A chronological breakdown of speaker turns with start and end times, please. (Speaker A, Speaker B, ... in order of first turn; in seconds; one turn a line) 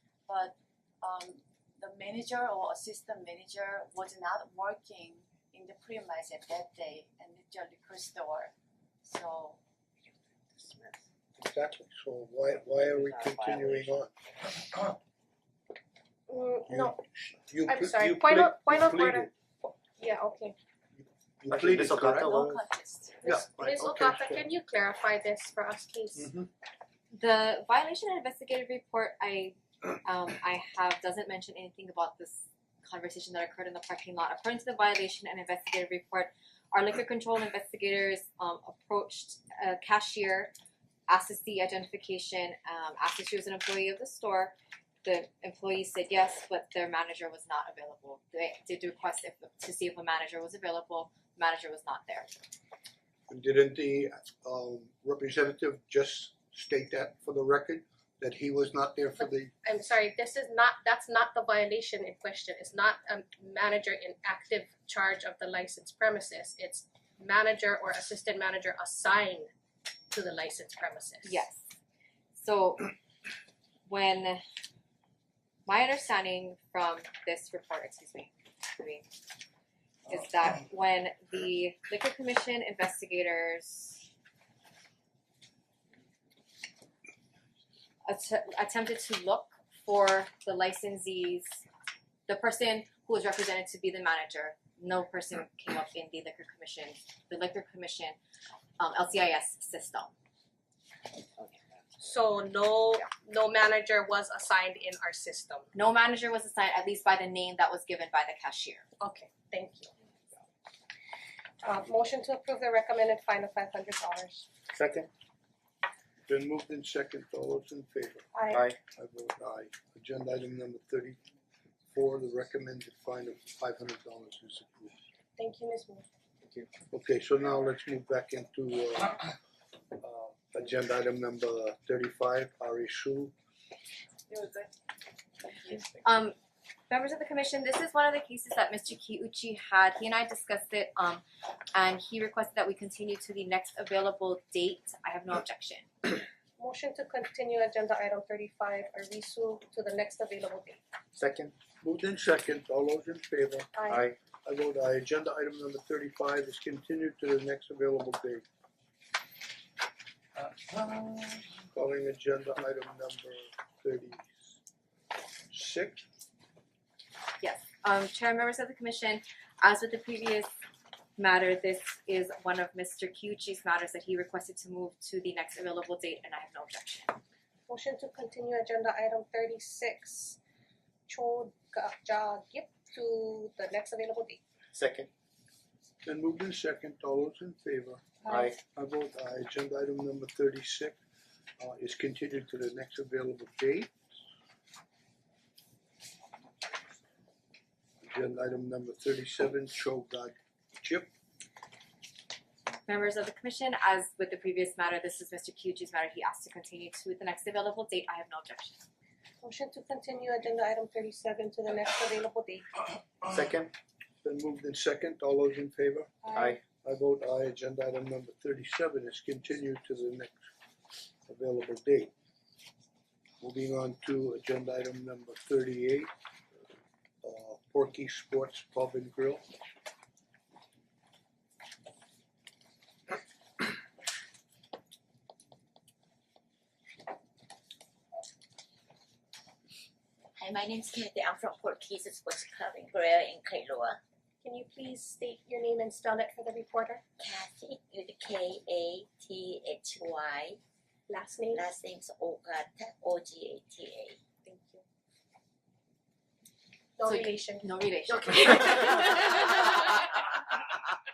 Speaker A: 0.3-8.5
Speaker A: 9.0-9.6
Speaker A: 10.5-11.0
Speaker B: 11.3-14.1
Speaker C: 12.8-13.8
Speaker B: 14.6-14.9
Speaker D: 16.3-16.9
Speaker B: 16.7-19.3
Speaker D: 17.6-20.6
Speaker B: 21.0-22.4
Speaker C: 21.5-22.6
Speaker A: 22.2-23.2
Speaker D: 23.2-26.3
Speaker B: 23.2-24.5
Speaker B: 26.2-26.5
Speaker E: 27.1-40.5
Speaker E: 41.1-52.3
Speaker B: 53.3-59.5
Speaker D: 59.2-69.5
Speaker D: 70.1-71.4
Speaker E: 71.2-71.6
Speaker E: 72.3-72.9
Speaker E: 73.9-74.4
Speaker E: 75.7-79.0
Speaker E: 80.1-84.0
Speaker E: 88.0-91.6
Speaker E: 92.3-98.2
Speaker E: 98.8-100.1
Speaker D: 102.0-105.7
Speaker E: 105.7-108.9
Speaker D: 109.0-109.9
Speaker D: 111.6-114.5
Speaker C: 114.7-115.1
Speaker B: 116.3-121.2
Speaker D: 118.3-118.7
Speaker C: 118.5-118.8
Speaker B: 121.9-125.0
Speaker D: 125.4-126.0
Speaker B: 126.9-129.3
Speaker B: 129.9-133.3
Speaker A: 134.3-134.7
Speaker A: 135.4-135.9
Speaker E: 136.0-136.3
Speaker E: 136.9-145.9
Speaker D: 146.6-150.8
Speaker C: 151.1-151.5
Speaker B: 151.8-153.7
Speaker D: 153.7-154.0
Speaker C: 153.9-154.2
Speaker B: 154.4-158.4
Speaker B: 160.4-164.4
Speaker B: 165.5-166.0
Speaker E: 167.4-170.5
Speaker E: 171.2-177.2
Speaker D: 177.7-180.4
Speaker D: 181.1-184.4
Speaker C: 184.7-185.1
Speaker B: 186.0-188.1
Speaker C: 188.3-188.6
Speaker B: 188.6-190.9
Speaker B: 191.6-193.9
Speaker B: 198.0-201.1
Speaker E: 202.8-208.8
Speaker D: 209.4-212.6
Speaker C: 213.2-213.7
Speaker B: 214.2-220.4
Speaker D: 216.2-216.5
Speaker C: 216.3-216.6
Speaker B: 221.3-222.1
Speaker B: 223.4-226.1
Speaker B: 227.2-229.4
Speaker F: 240.4-244.0
Speaker D: 244.4-247.0
Speaker F: 247.2-250.6
Speaker D: 251.1-251.7
Speaker F: 251.5-254.2
Speaker D: 254.4-254.8
Speaker D: 257.0-257.7
Speaker E: 257.1-259.9